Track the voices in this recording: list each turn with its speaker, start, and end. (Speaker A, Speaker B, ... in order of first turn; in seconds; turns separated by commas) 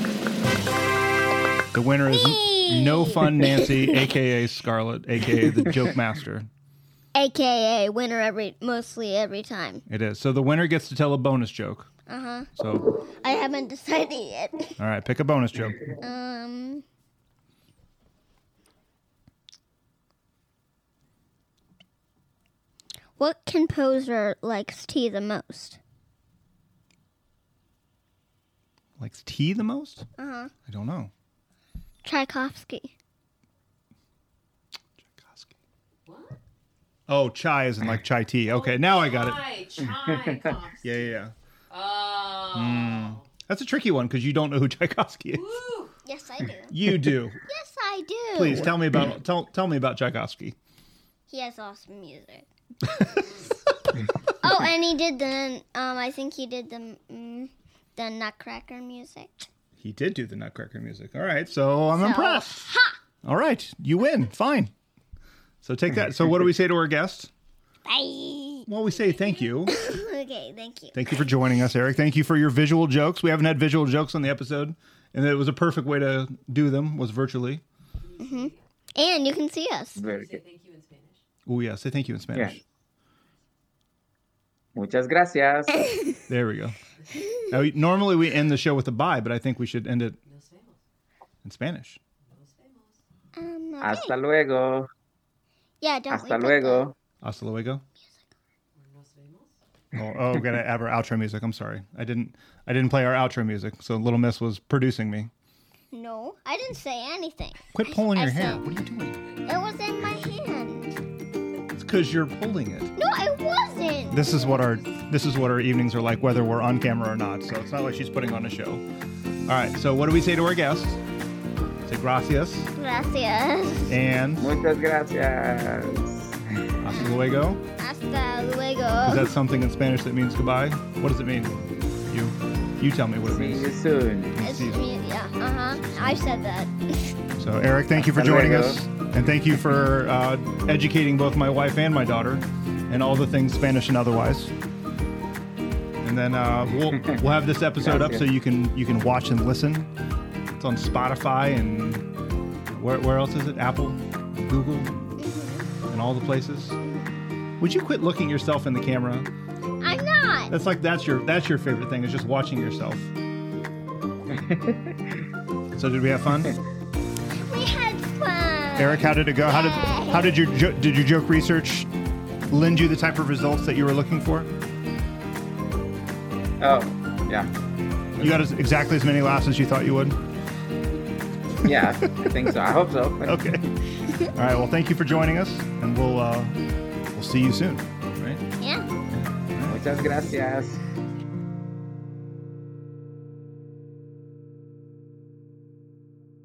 Speaker A: 1.7-6.5, Speaker B: 2.1-4.1, Speaker B: 7.1-9.8, Speaker A: 9.9-11.9, Speaker B: 12.1-12.5, Speaker A: 12.6-12.8, Speaker B: 13.1-14.8, Speaker A: 14.8-15.8, Speaker B: 16.0-16.8, Speaker B: 23.2-25.8, Speaker A: 29.0-30.1, Speaker B: 30.2-30.5, Speaker A: 30.7-31.1, Speaker B: 32.0-32.9, Speaker A: 35.0-35.5, Speaker C: 36.0-36.4, Speaker A: 37.1-39.4, Speaker C: 38.5-41.1, Speaker A: 40.8-41.3, Speaker C: 41.7-43.2, Speaker A: 42.5-45.6, Speaker C: 45.3-45.9, Speaker B: 46.0-46.7, Speaker A: 46.7-47.4, Speaker B: 47.5-48.7, Speaker A: 48.3-50.5, Speaker B: 51.3-52.5, Speaker B: 53.0-53.4, Speaker B: 54.3-59.3, Speaker A: 59.8-62.7, Speaker B: 62.0-63.0, Speaker A: 63.2-64.7, Speaker A: 65.6-67.3, Speaker B: 67.8-68.7, Speaker A: 68.7-69.7, Speaker B: 69.7-71.0, Speaker A: 70.9-77.6, Speaker C: 78.1-78.6, Speaker B: 78.2-80.0, Speaker D: 80.0-80.4, Speaker C: 80.0-81.2, Speaker A: 81.5-82.6, Speaker D: 84.7-85.9, Speaker A: 86.3-86.8, Speaker A: 87.5-90.2, Speaker C: 90.2-90.8, Speaker A: 91.4-92.0, Speaker C: 92.2-93.0, Speaker B: 93.3-94.1, Speaker D: 93.8-94.9, Speaker B: 95.8-96.9, Speaker D: 96.1-97.0, Speaker A: 97.2-97.8, Speaker B: 98.0-98.2, Speaker C: 98.8-99.5, Speaker A: 100.0-105.3, Speaker D: 100.0-100.4, Speaker B: 105.9-108.6, Speaker A: 107.7-109.2, Speaker B: 109.4-111.0, Speaker A: 111.7-112.9, Speaker B: 113.0-114.3, Speaker A: 114.1-118.8, Speaker A: 119.5-121.0, Speaker A: 121.8-122.7, Speaker B: 122.8-124.0, Speaker A: 123.9-124.5, Speaker D: 124.4-126.5, Speaker A: 126.8-127.6, Speaker B: 126.9-129.3, Speaker A: 129.0-133.7, Speaker D: 133.3-134.3, Speaker A: 134.3-134.9, Speaker B: 134.4-137.2, Speaker A: 135.8-136.2, Speaker A: 137.4-144.5, Speaker D: 137.9-138.8, Speaker A: 146.0-149.9, Speaker D: 147.8-148.2, Speaker A: 150.6-152.1, Speaker A: 152.7-155.2, Speaker B: 155.2-155.7, Speaker A: 155.9-156.8, Speaker B: 156.8-157.2, Speaker A: 157.6-159.3, Speaker B: 159.8-160.5, Speaker A: 160.5-163.1, Speaker D: 164.3-165.2, Speaker A: 165.7-166.5, Speaker B: 167.3-170.4, Speaker A: 168.8-171.9, Speaker A: 172.5-174.5, Speaker D: 176.6-177.5, Speaker A: 178.2-180.2, Speaker D: 181.6-183.6, Speaker A: 183.2-183.6, Speaker A: 184.3-186.6, Speaker A: 187.1-188.4, Speaker B: 188.6-188.8, Speaker A: 189.1-189.8, Speaker D: 189.7-190.8